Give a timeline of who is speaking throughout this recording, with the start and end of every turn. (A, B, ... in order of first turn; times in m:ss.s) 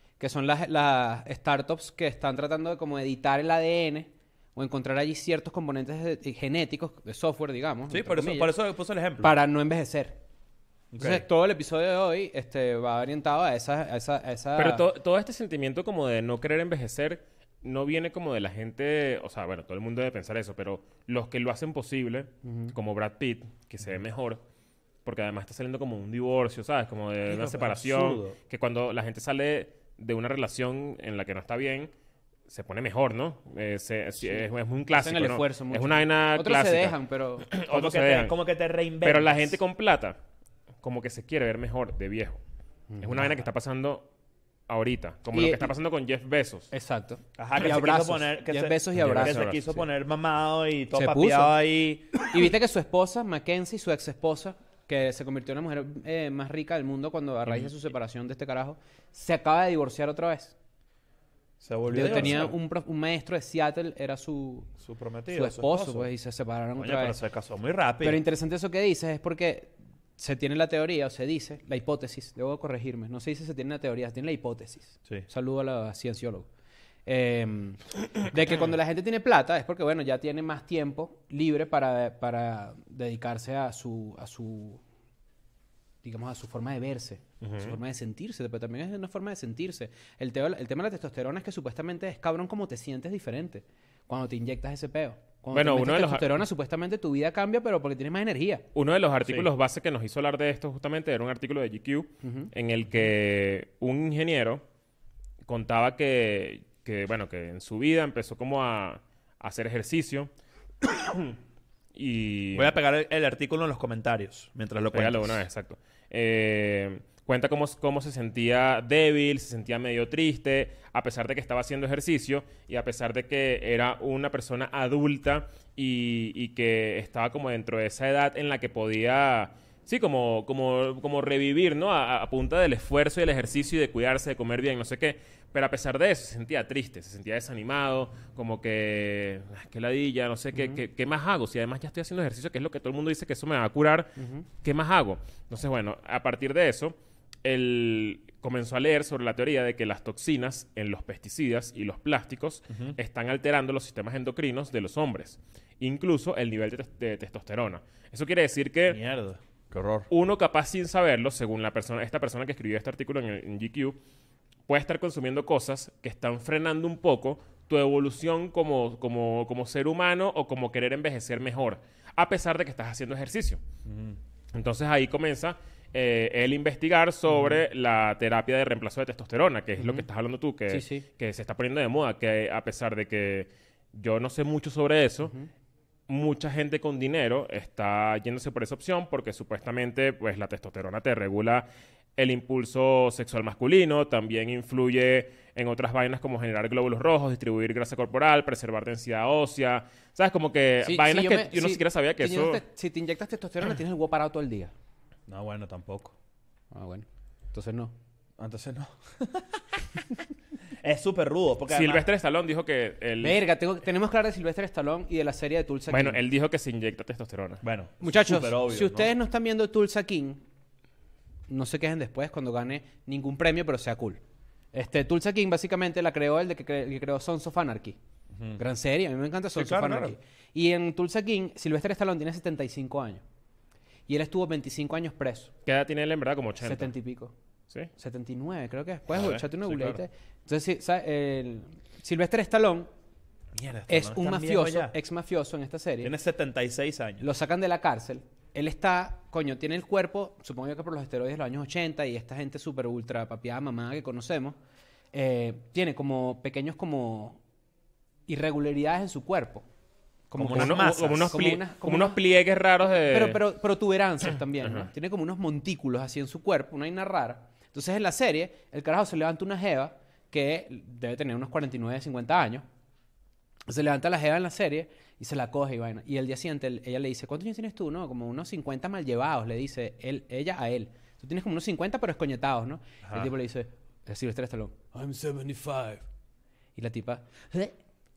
0:00.2-0:08.5 A
0:07.9-0:09.3 B
0:09.2-0:10.2 A
0:10.9-0:11.2 B
0:11.0-0:14.8 A
0:14.6-0:24.4 C
0:22.4-0:22.7 A
0:25.0-0:31.9 C
0:27.3-0:28.4 B
0:32.5-0:37.0 C
0:34.3-0:37.5 A
0:37.5-0:38.4 C
0:37.7-0:39.6 B
0:39.0-0:40.2 C
0:40.8-0:42.4 C
0:42.9-0:43.3 A
0:43.0-0:44.1 C
0:44.7-0:46.7 C
0:45.3-0:45.7 A
0:46.7-0:49.5 A
0:47.4-0:52.1 B
0:49.0-0:49.6 C
0:50.9-0:51.6 A
0:52.2-1:00.6 A
1:01.6-1:02.6 B
1:01.9-1:04.7 A
1:04.8-1:06.1 B
1:05.3-1:07.2 A
1:06.8-1:08.2 B
1:08.0-1:16.5 A
1:17.1-1:24.8 A
1:26.0-1:38.6 A
1:27.4-1:27.7 C
1:35.5-1:36.4 C
1:38.8-1:44.6 C
1:42.2-1:42.5 A
1:45.5-1:50.3 C
1:50.8-1:51.4 C
1:52.0-1:52.7 C
1:52.6-1:55.4 B
1:54.9-2:39.0 C
2:20.6-2:20.8 A
2:24.2-2:24.4 A
2:38.9-2:40.1 B
2:40.1-2:44.0 C
2:44.7-2:53.6 C
2:53.9-2:54.2 B
2:54.5-3:05.3 C
2:59.8-3:00.0 A
3:00.7-3:01.0 A
3:06.1-3:11.7 C
3:12.2-3:22.6 C
3:20.8-3:24.7 A
3:25.3-3:26.1 B
3:26.7-3:27.9 A
3:28.4-3:29.6 B
3:30.8-3:32.1 B
3:31.7-3:33.4 C
3:33.2-3:36.2 A
3:35.9-3:37.6 C
3:37.6-3:39.1 B
3:38.0-3:40.4 A
3:41.5-3:44.2 A
3:44.7-3:48.0 A
3:48.3-3:48.6 B
3:48.6-3:53.2 A
3:49.6-3:50.2 B
3:54.1-3:55.5 A
3:55.7-3:56.9 C
3:56.6-3:57.3 A
3:58.0-4:02.9 A
3:59.1-4:00.0 B
4:03.6-4:04.9 B
4:03.9-4:06.1 A
4:06.0-4:07.2 B
4:07.2-4:14.6 A
4:15.1-4:17.4 A
4:18.3-4:19.6 A
4:20.3-4:22.2 A
4:20.4-4:21.4 B
4:20.5-4:23.4 C
4:23.1-4:32.6 A
4:24.6-4:24.9 C
4:33.7-4:46.0 A
4:43.0-4:43.3 B
4:46.8-4:47.8 A